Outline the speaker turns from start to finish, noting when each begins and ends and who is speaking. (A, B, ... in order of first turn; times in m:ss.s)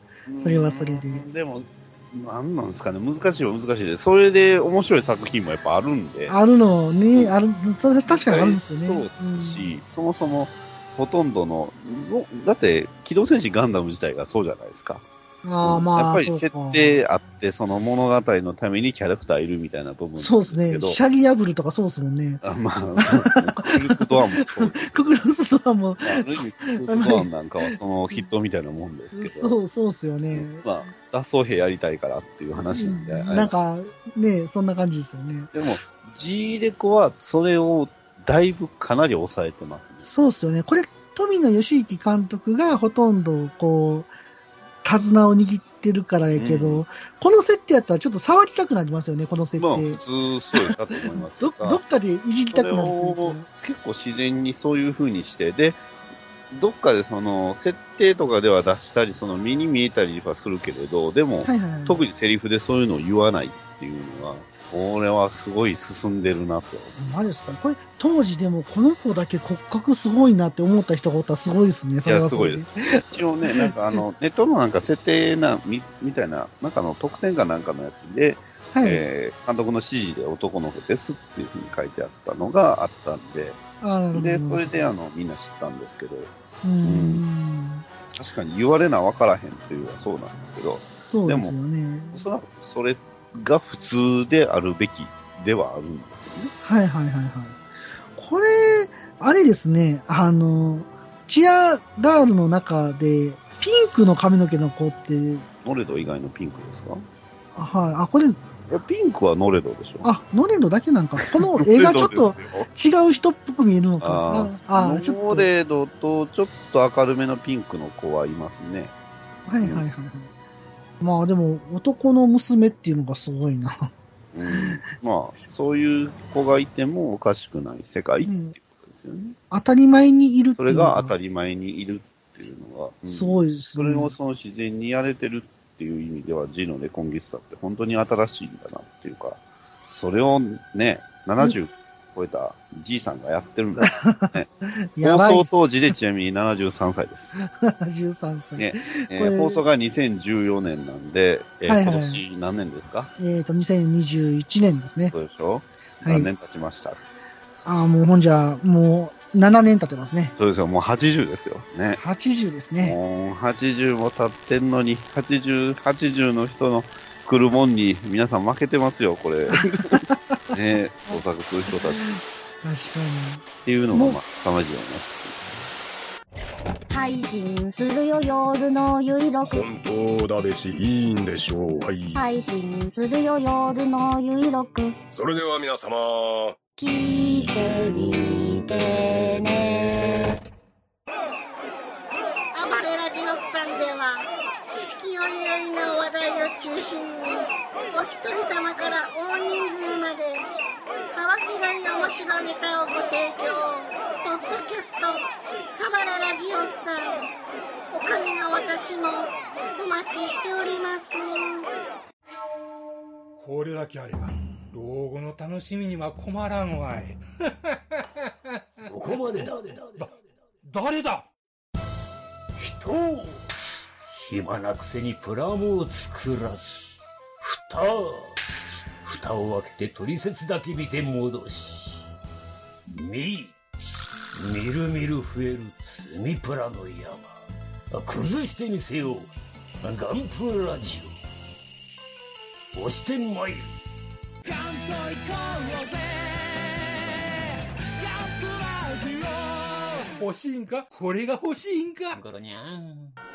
0:00.2-0:06.4 A
0:00.4-0:01.3 B
0:06.3-0:09.7 B
0:08.1-0:15.0 A
0:15.4-0:17.0 B
0:15.6-0:21.0 A
0:20.2-0:22.4 B
0:22.4-0:25.1 A
0:23.0-0:28.2 B
0:26.0-0:29.6 A
0:29.1-0:30.9 B
0:30.3-0:33.5 A
0:32.7-0:35.5 B
0:35.5-0:40.0 A
0:40.0-0:44.1 B
0:44.8-0:50.0 B
0:46.4-0:46.8 A
0:49.6-0:51.8 A
0:50.5-0:53.5 B
0:52.5-0:55.8 A
0:56.5-1:07.2 A
1:01.4-1:02.0 B
1:07.0-1:13.7 B
1:12.0-1:23.6 A
1:18.7-1:19.0 B
1:23.8-1:24.6 B
1:24.1-1:26.3 A
1:26.6-1:27.8 B
1:26.8-1:27.2 A
1:28.1-1:31.6 A
1:30.8-1:32.2 B
1:32.1-1:36.5 A
1:36.6-1:37.6 B
1:38.1-1:45.4 B
1:45.6-1:47.0 A
1:47.5-1:48.4 B
1:48.7-1:50.1 A
1:50.0-1:55.5 B
1:51.3-1:52.7 A
1:54.0-1:58.9 A
1:59.5-2:00.3 B
1:59.6-1:59.8 A
2:01.0-2:03.9 B
2:04.3-2:09.4 A
2:04.5-2:04.8 B
2:08.2-2:08.5 B
2:09.5-2:11.1 B
2:10.6-2:19.4 A
2:13.1-2:14.1 B
2:19.9-2:24.5 A
2:23.8-2:25.6 B
2:25.0-2:27.3 A
2:27.4-2:29.6 B
2:28.6-2:33.1 A
2:31.7-2:32.2 B
2:33.2-2:35.1 B
2:35.1-2:37.0 A
2:36.0-2:36.3 B
2:37.6-2:40.3 B
2:40.4-2:42.0 A
2:42.0-2:43.0 B
2:42.8-2:52.1 A
2:49.5-2:50.4 B
2:52.1-2:54.2 B
2:53.6-2:55.6 A
2:56.9-2:59.6 C
2:59.4-3:02.2 D
3:02.1-3:05.0 C
3:05.1-3:06.6 D
3:06.8-3:10.3 C
3:12.5-3:20.5 E
3:21.1-3:27.3 E
3:27.9-3:31.7 E
3:33.4-3:38.0 F
3:38.6-3:40.1 F
3:38.9-3:40.2 G
3:40.6-3:41.3 F
3:42.6-3:43.5 G
3:44.1-3:52.1 G
3:52.9-3:53.6 G
3:54.3-3:57.4 G
3:57.9-3:59.3 G
3:59.8-4:01.1 G
4:02.7-4:03.7 G
4:04.4-4:12.2 F
4:12.1-4:13.1 G